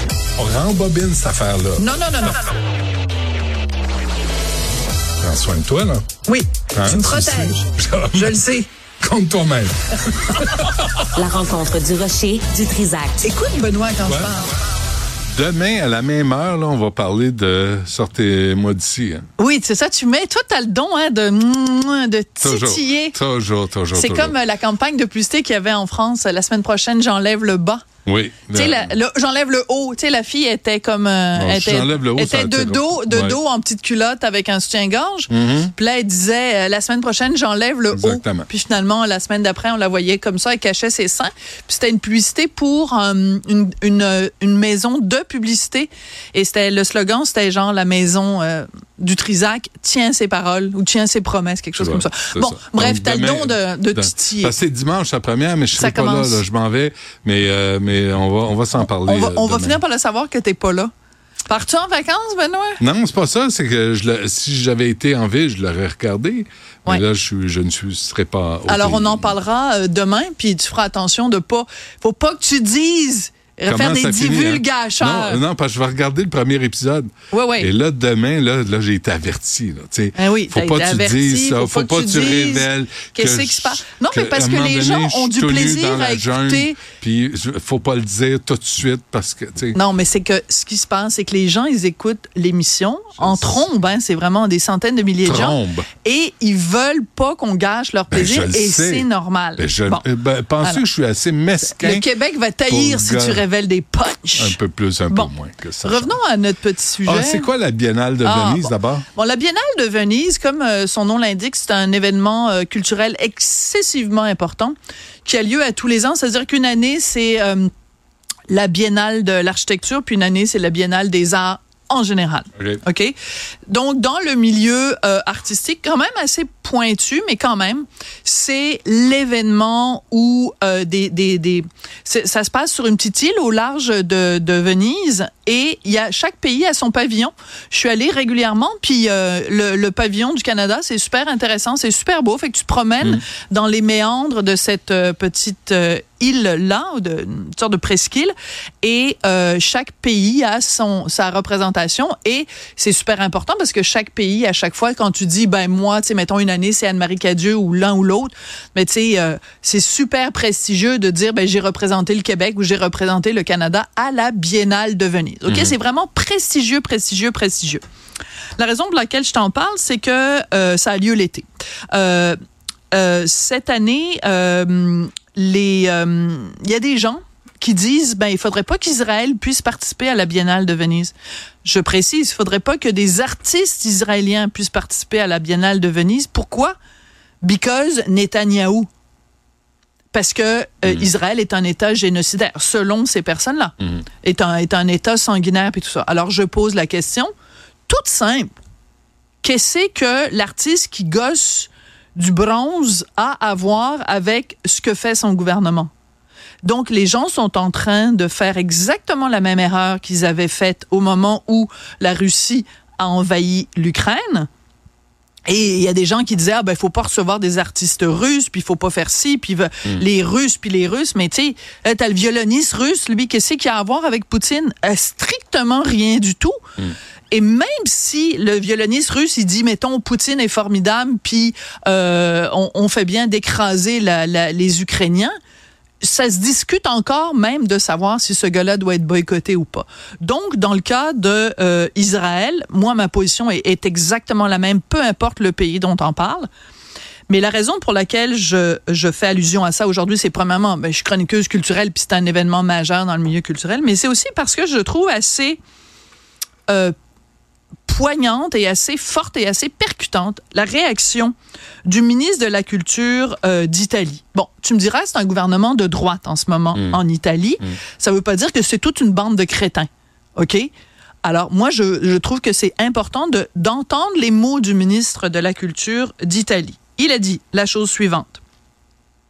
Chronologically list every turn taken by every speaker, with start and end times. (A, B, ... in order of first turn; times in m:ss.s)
0:00.4-0:01.9 A
0:01.8-0:02.5 B
0:05.2-0:06.0 A
0:06.3-0:08.7 B
0:06.7-0:08.4 A
0:09.0-0:11.1 A
0:11.2-0:13.3 C
0:13.2-0:14.6 B
0:14.1-0:14.4 A
0:15.3-0:19.3 A
0:19.4-0:23.2 B
0:22.4-0:24.4 A
0:23.9-0:27.8 B
0:28.1-0:29.0 A
0:28.5-0:54.6 B
0:31.4-0:33.4 A
0:35.3-0:35.7 A
0:37.9-0:38.5 A
0:51.8-0:59.8 A
0:55.7-0:56.4 B
0:58.8-1:00.9 B
1:01.5-1:02.8 B
1:02.8-1:09.4 A
1:08.7-1:15.4 B
1:13.7-1:29.8 A
1:17.3-1:17.7 B
1:20.2-1:26.8 B
1:29.8-1:40.1 B
1:33.2-1:33.7 A
1:35.2-1:35.9 A
1:38.1-1:39.1 A
1:39.6-1:42.1 A
1:41.6-1:44.6 B
1:42.7-1:43.4 A
1:44.4-1:46.2 A
1:45.1-1:47.5 B
1:47.0-1:49.1 A
1:48.2-1:57.7 B
1:58.5-2:03.2 B
2:03.7-2:47.8 B
2:45.5-2:45.7 A
2:48.6-2:52.4 B
2:52.9-3:06.8 B
3:07.4-3:08.9 B
3:10.1-3:17.3 B
3:17.9-3:18.6 B
3:19.4-3:25.9 B
3:26.6-3:34.5 B
3:35.5-3:46.6 B
3:47.3-3:55.3 B
3:56.0-4:06.5 B
4:07.3-4:15.6 B
4:16.7-4:16.9 B
4:17.9-4:21.3 B
4:21.8-4:30.7 B
4:31.2-4:38.4 B